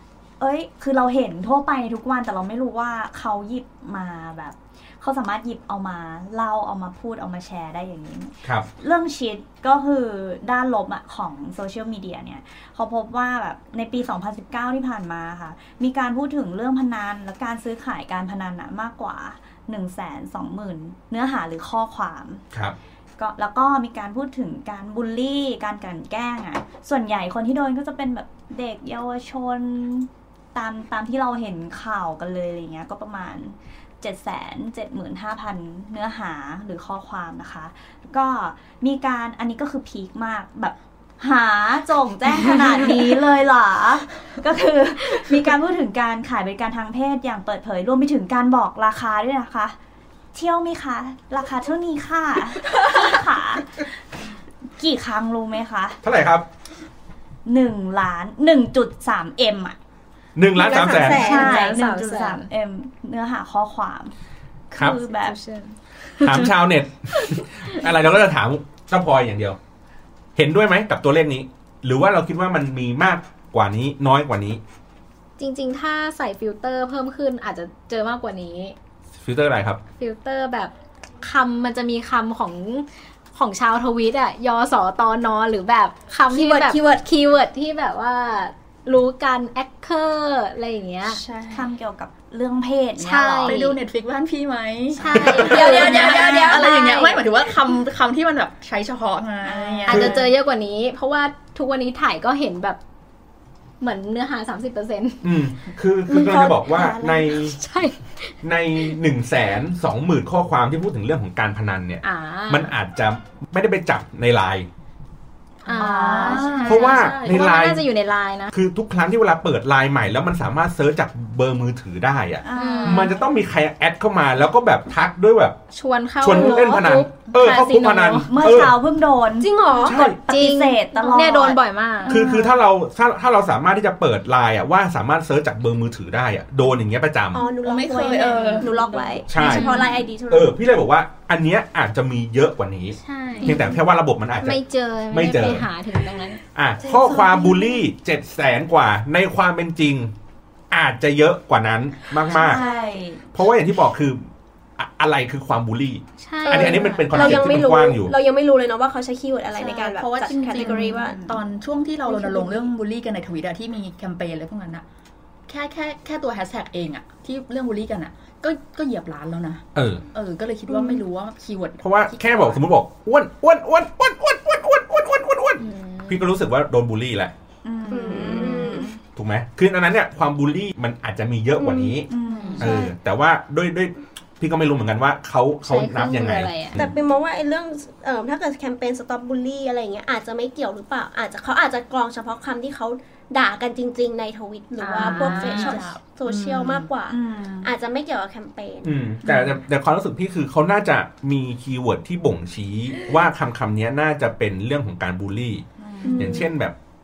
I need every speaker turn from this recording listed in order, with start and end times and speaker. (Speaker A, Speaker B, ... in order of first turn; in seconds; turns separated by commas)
Speaker A: 0.4-22.4, Speaker A: 23.2-49.8, Speaker A: 50.3-53.9, Speaker A: 54.8-56.0, Speaker B: 56.0-56.5, Speaker A: 57.5-59.8, Speaker B: 60.4-61.4, Speaker C: 60.5-61.8, Speaker A: 60.7-64.1, Speaker D: 61.0-62.5, Speaker A: 64.7-65.4, Speaker D: 65.2-66.5, Speaker B: 66.2-69.6, Speaker B: 70.4-74.6, Speaker D: 75.4-78.8, Speaker B: 79.2-79.8, Speaker D: 80.0-91.2, Speaker C: 86.3-87.0, Speaker C: 91.1-91.7, Speaker A: 91.5-93.6, Speaker D: 93.0-93.8, Speaker E: 93.4-100.3, Speaker D: 95.0-97.3, Speaker A: 95.2-96.2, Speaker C: 95.4-96.7, Speaker A: 99.4-100.1, Speaker D: 99.9-102.8, Speaker D: 103.8-105.2, Speaker B: 105.2-107.6, Speaker C: 106.1-107.3, Speaker D: 107.5-108.9, Speaker B: 108.4-114.7, Speaker D: 112.0-112.7, Speaker D: 115.6-118.5, Speaker A: 115.7-117.1, Speaker E: 115.8-116.7, Speaker B: 116.7-117.8, Speaker B: 118.5-125.6, Speaker A: 122.4-123.3, Speaker D: 122.5-123.2, Speaker D: 125.7-128.5, Speaker B: 126.2-128.8, Speaker A: 128.2-132.6, Speaker C: 129.4-130.0, Speaker D: 129.9-132.2, Speaker B: 129.9-130.2, Speaker C: 131.0-131.5, Speaker B: 132.1-137.5, Speaker C: 137.3-140.6, Speaker E: 137.6-139.2, Speaker A: 137.8-139.3, Speaker B: 139.3-144.6, Speaker D: 139.4-140.0, Speaker D: 143.0-143.7, Speaker A: 143.4-143.7, Speaker D: 144.4-146.4, Speaker B: 145.1-145.7, Speaker B: 146.5-150.1, Speaker C: 146.8-147.6, Speaker A: 147.0-147.7, Speaker B: 150.7-152.6, Speaker A: 152.2-153.3, Speaker C: 152.4-153.0, Speaker B: 153.3-154.3, Speaker B: 154.8-158.1, Speaker D: 156.2-157.6, Speaker C: 156.4-161.2, Speaker E: 159.6-164.8, Speaker A: 160.6-161.4, Speaker C: 162.1-162.7, Speaker E: 165.5-172.7, Speaker B: 169.8-170.1, Speaker B: 171.8-177.3, Speaker D: 175.6-176.2, Speaker A: 177.6-179.0, Speaker C: 177.9-178.9, Speaker B: 179.1-186.9, Speaker C: 181.6-182.0, Speaker A: 182.1-182.9, Speaker E: 182.2-182.8, Speaker C: 182.6-182.9, Speaker D: 185.6-186.8, Speaker C: 186.8-198.9, Speaker D: 194.8-195.8, Speaker E: 195.0-196.8, Speaker A: 196.3-197.7, Speaker B: 198.8-205.7, Speaker A: 205.8-206.5, Speaker C: 206.0-206.5, Speaker B: 206.2-206.8